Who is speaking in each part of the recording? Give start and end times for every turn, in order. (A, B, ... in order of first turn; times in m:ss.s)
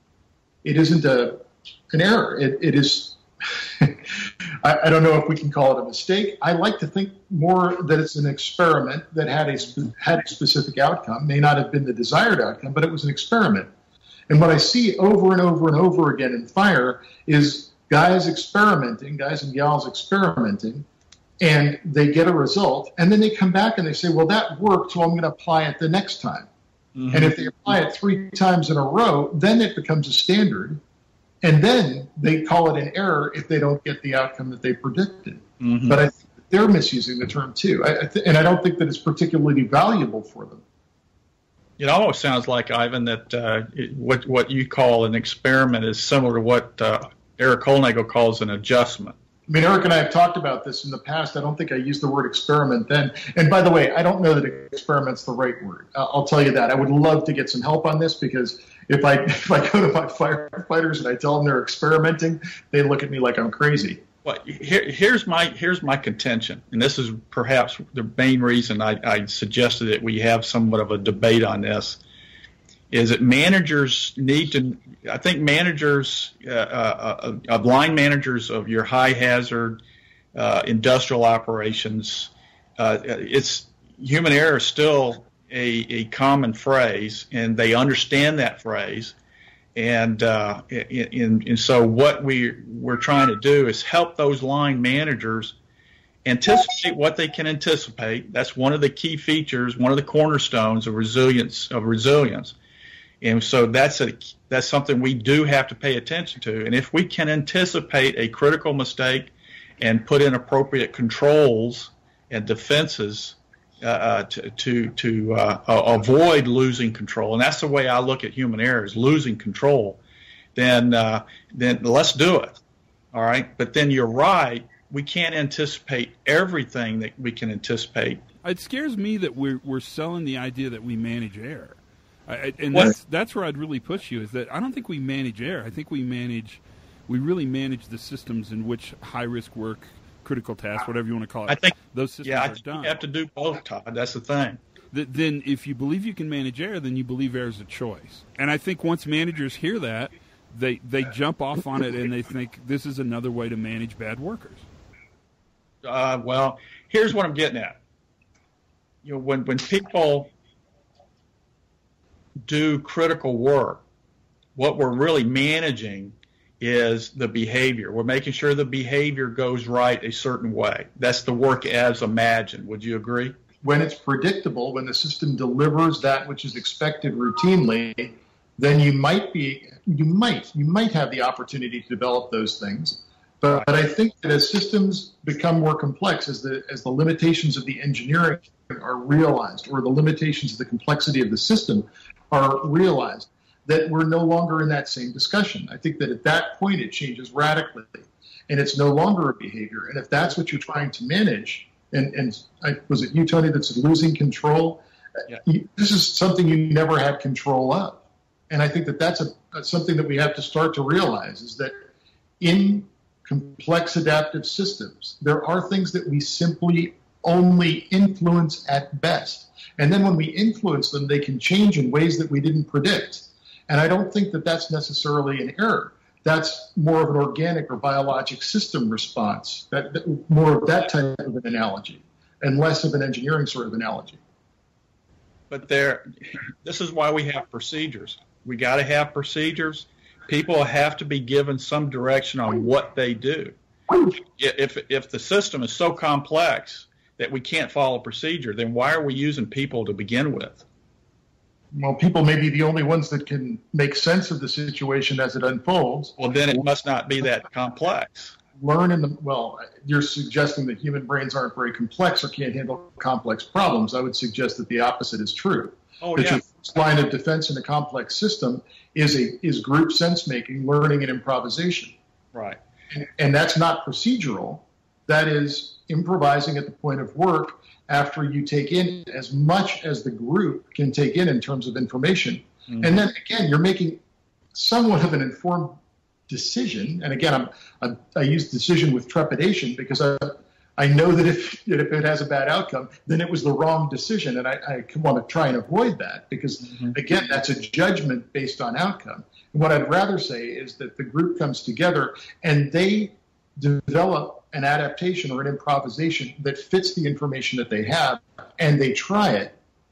0:00.6-0:13.7 A
0:14.3-0:20.8 A
0:21.4-0:26.5 A
0:27.0-0:27.4 B
0:27.1-0:30.8 A
0:31.4-0:40.6 A
0:35.6-0:36.0 B
0:41.8-0:49.2 B
0:49.5-1:04.0 A
1:04.2-1:12.0 B
1:12.9-1:19.8 B
1:20.3-1:29.1 B
1:29.8-1:35.6 B
1:36.2-1:42.5 B
1:43.2-2:00.0 B
2:00.5-2:02.6 B
2:03.1-2:08.2 B
2:08.4-2:23.0 C
2:21.5-2:24.6 B
2:24.9-2:34.6 C
2:35.8-2:37.8 B
2:39.0-2:40.3 B
2:42.4-2:43.8 B
2:44.6-2:53.3 B
2:53.6-3:24.8 A
3:25.4-3:31.7 A
3:32.4-3:54.2 A
3:55.5-4:03.5 B
4:04.2-4:10.6 B
4:11.7-4:16.6 A
4:16.2-4:18.4 B
4:18.6-4:31.9 A
4:26.0-4:26.4 B
4:32.3-4:32.6 B
4:32.9-4:44.0 A
4:42.7-4:42.9 B
4:44.5-4:45.8 A
4:46.3-5:09.5 A
4:56.6-4:56.9 B